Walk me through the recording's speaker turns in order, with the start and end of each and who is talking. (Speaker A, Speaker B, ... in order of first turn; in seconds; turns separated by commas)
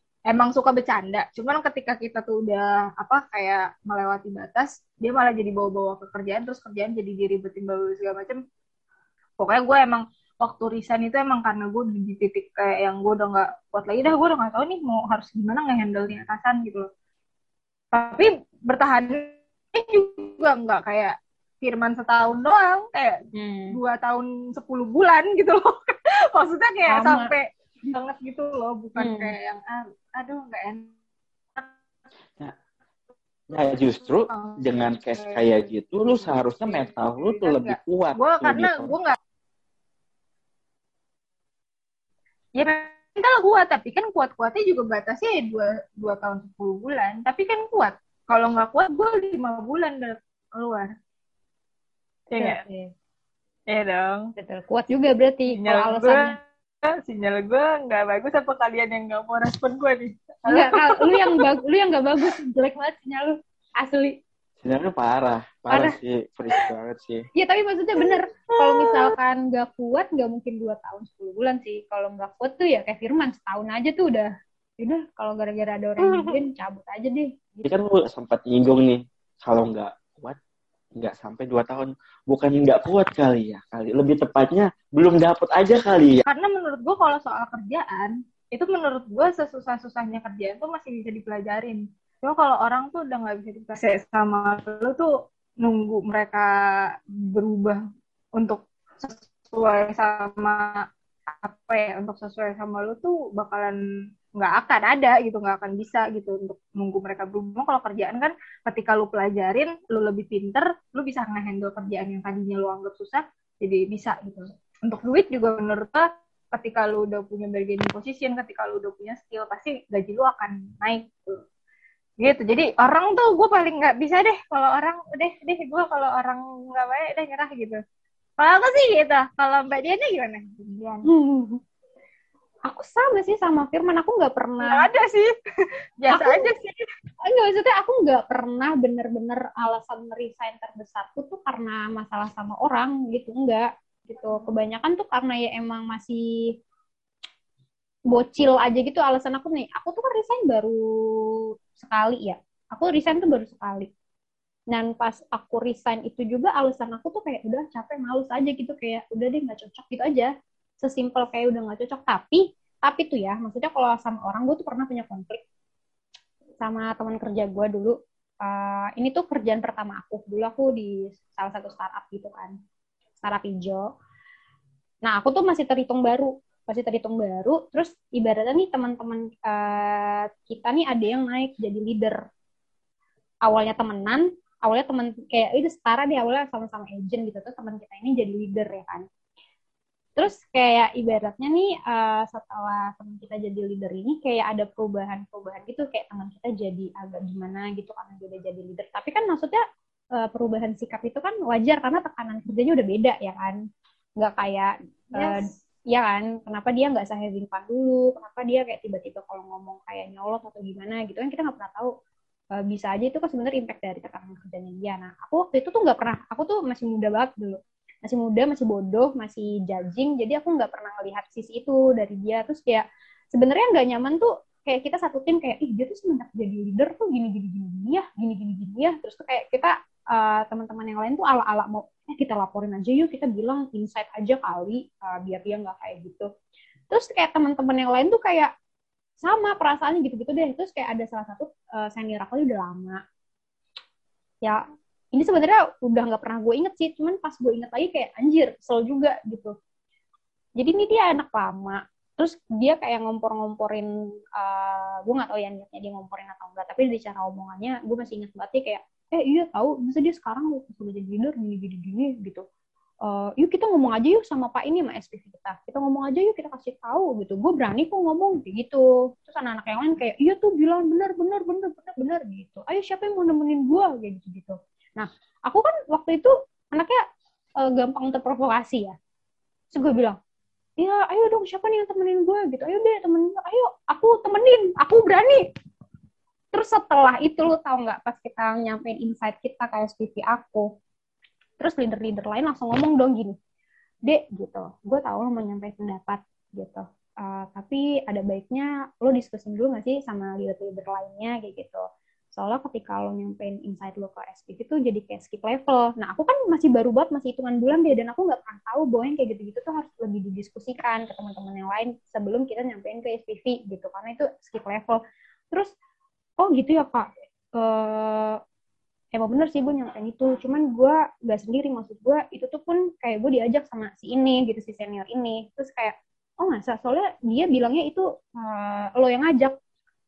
Speaker A: 0.3-8.4, Speaker A: 9.4-16.9, Speaker A: 17.9-23.2, Speaker B: 23.3-23.8, Speaker A: 23.7-30.9, Speaker B: 26.9-27.3, Speaker B: 29.0-29.3, Speaker C: 33.5-38.9, Speaker A: 34.3-35.5, Speaker A: 36.1-39.1, Speaker A: 42.5-50.9, Speaker A: 52.3-52.6, Speaker B: 52.4-52.9, Speaker A: 53.7-54.3, Speaker B: 54.4-56.4, Speaker A: 55.5-61.4, Speaker B: 60.5-64.2, Speaker C: 64.6-67.3, Speaker B: 65.7-66.0, Speaker B: 67.3-77.7, Speaker A: 68.5-69.1, Speaker A: 76.0-76.4, Speaker C: 77.6-80.4, Speaker C: 81.0-86.2, Speaker A: 86.2-97.8, Speaker A: 98.4-100.8, Speaker A: 101.4-103.8, Speaker A: 104.3-121.4, Speaker A: 122.2-127.8, Speaker A: 128.4-131.1, Speaker B: 131.1-131.6, Speaker B: 132.7-134.9, Speaker A: 134.6-135.4, Speaker A: 136.0-136.8, Speaker B: 136.1-136.5, Speaker B: 137.2-146.5, Speaker B: 148.1-153.9, Speaker B: 154.7-165.4, Speaker B: 166.6-172.6, Speaker B: 173.2-173.9, Speaker B: 175.0-182.2, Speaker B: 183.4-189.1, Speaker B: 190.2-199.6, Speaker B: 200.2-203.6, Speaker B: 204.2-211.9, Speaker A: 205.1-205.5, Speaker B: 212.6-236.3, Speaker B: 236.9-238.5, Speaker B: 239.2-243.0, Speaker B: 245.1-249.5, Speaker B: 250.6-262.4, Speaker B: 263.1-277.0, Speaker B: 277.6-278.9, Speaker B: 279.7-280.2, Speaker B: 280.8-285.4, Speaker B: 286.5-290.7, Speaker B: 291.6-293.4, Speaker B: 294.0-301.8, Speaker B: 302.4-315.0, Speaker B: 316.4-318.4, Speaker B: 319.1-329.6